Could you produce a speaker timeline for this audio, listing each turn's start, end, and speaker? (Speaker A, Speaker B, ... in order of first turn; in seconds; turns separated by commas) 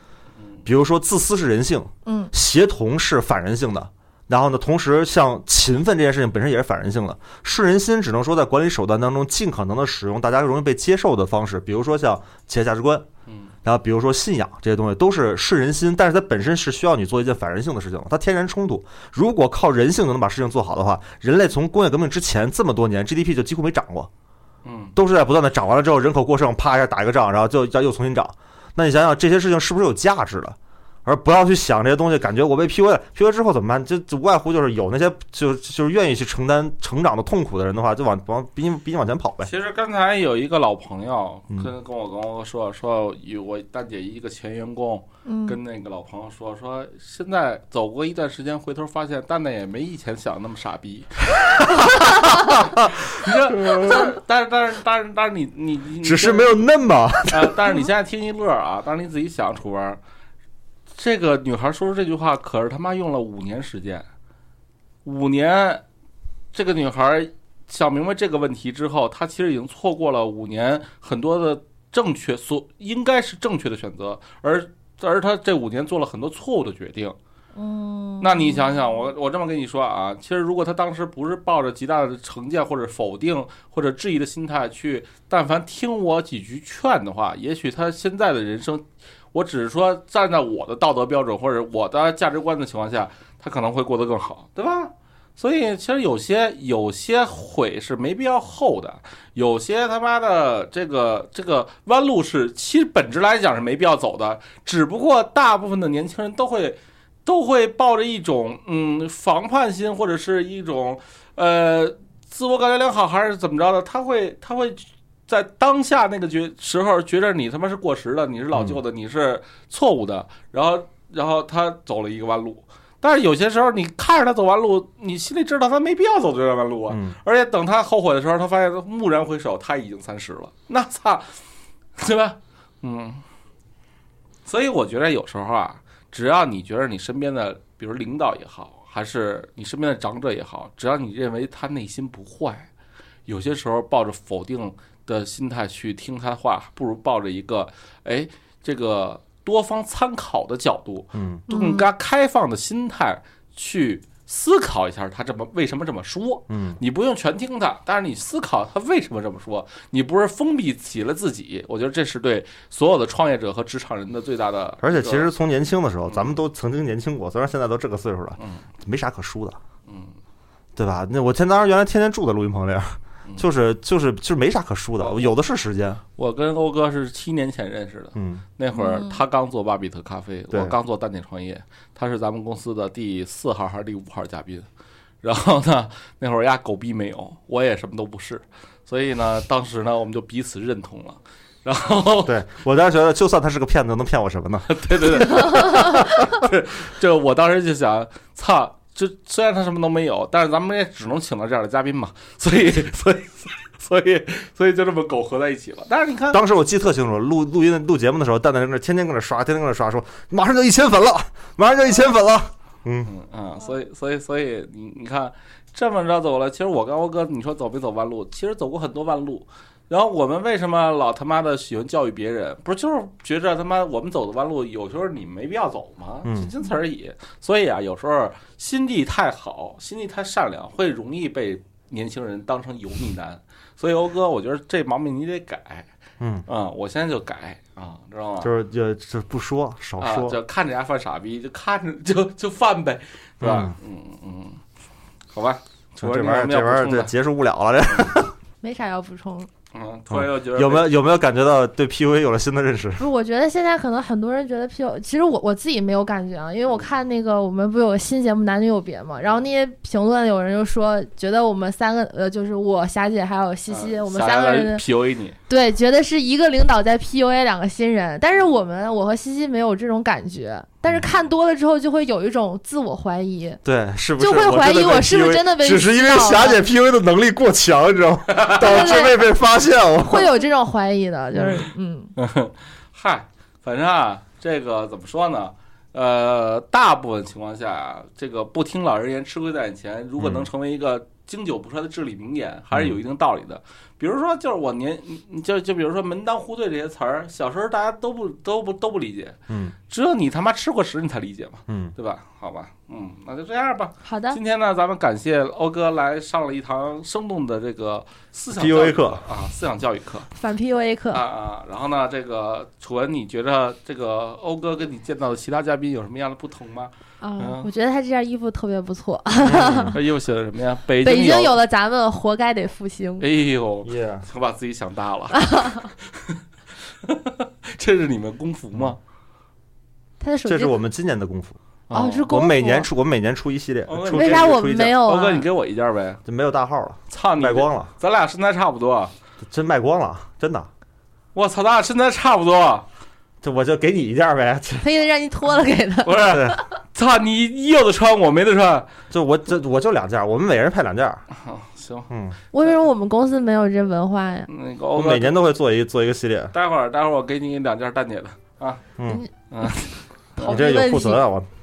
Speaker A: 0.7-13.1, Speaker B: 2.1-2.3, Speaker A: 13.6-24.1, Speaker C: 24.6-24.9, Speaker A: 25.0-39.5, Speaker C: 39.4-51.1, Speaker B: 45.3-45.6, Speaker A: 51.4-54.1, Speaker C: 52.2-56.6, Speaker A: 56.0-57.7, Speaker C: 57.3-60.0, Speaker C: 61.0-64.1, Speaker C: 65.0-65.8, Speaker C: 66.5-77.2, Speaker B: 77.6-79.1, Speaker C: 78.2-131.4, Speaker A: 118.5-118.8, Speaker A: 126.9-127.2, Speaker C: 132.0-133.2, Speaker C: 134.5-142.7, Speaker C: 143.3-165.3, Speaker A: 151.1-151.4, Speaker B: 151.5-151.8, Speaker A: 156.5-156.8, Speaker A: 164.8-169.6, Speaker C: 168.4-168.6, Speaker C: 169.9-170.1, Speaker A: 170.8-176.0, Speaker C: 175.0-175.3, Speaker C: 176.2-184.7, Speaker A: 178.2-178.4, Speaker B: 178.7-179.2, Speaker C: 185.2-192.3, Speaker A: 192.2-196.5, Speaker C: 194.7-206.4, Speaker A: 206.3-213.1, Speaker C: 213.0-235.9, Speaker A: 226.2-226.5, Speaker A: 236.2-236.5, Speaker C: 236.5-238.5, Speaker A: 238.4-240.4, Speaker C: 240.0-244.6, Speaker A: 243.4-243.7, Speaker C: 245.3-247.1, Speaker A: 246.0-248.4, Speaker B: 248.6-249.5, Speaker C: 249.7-250.9, Speaker A: 250.1-253.1, Speaker B: 253.0-264.8, Speaker C: 263.7-265.4, Speaker B: 265.5-273.6, Speaker A: 273.6-280.3, Speaker B: 274.2-276.6, Speaker C: 278.3-278.6, Speaker B: 278.6-279.3, Speaker B: 280.1-282.1, Speaker C: 282.2-299.4, Speaker A: 290.2-290.5, Speaker A: 292.7-293.0, Speaker A: 299.5-299.8, Speaker C: 299.9-310.3, Speaker A: 301.7-301.9, Speaker B: 304.0-304.4, Speaker A: 308.6-309.2, Speaker B: 310.4-311.2, Speaker C: 311.1-317.7, Speaker B: 317.2-320.0, Speaker A: 319.4-320.0, Speaker C: 319.9-321.6, Speaker B: 321.0-323.3, Speaker C: 323.2-326.4, Speaker A: 323.9-324.3, Speaker B: 325.4-325.9, Speaker C: 327.0-329.0, Speaker B: 330.2-330.8, Speaker A: 330.4-331.6, Speaker C: 331.9-332.3, Speaker B: 331.9-332.9, Speaker A: 332.3-335.0, Speaker C: 333.9-336.2, Speaker B: 334.1-335.5, Speaker A: 336.3-337.9, Speaker C: 337.1-339.1, Speaker A: 339.4-340.7, Speaker C: 341.3-342.9, Speaker A: 343.4-344.9, Speaker B: 344.8-346.6, Speaker C: 346.1-348.9, Speaker A: 346.3-346.6, Speaker A: 349.1-351.2, Speaker C: 351.3-352.1, Speaker A: 352.1-352.4, Speaker B: 352.5-354.5, Speaker C: 354.5-355.4, Speaker A: 354.9-356.5, Speaker C: 356.5-358.8, Speaker A: 359.0-359.2, Speaker C: 359.5-360.6, Speaker B: 360.4-361.2, Speaker A: 360.4-361.5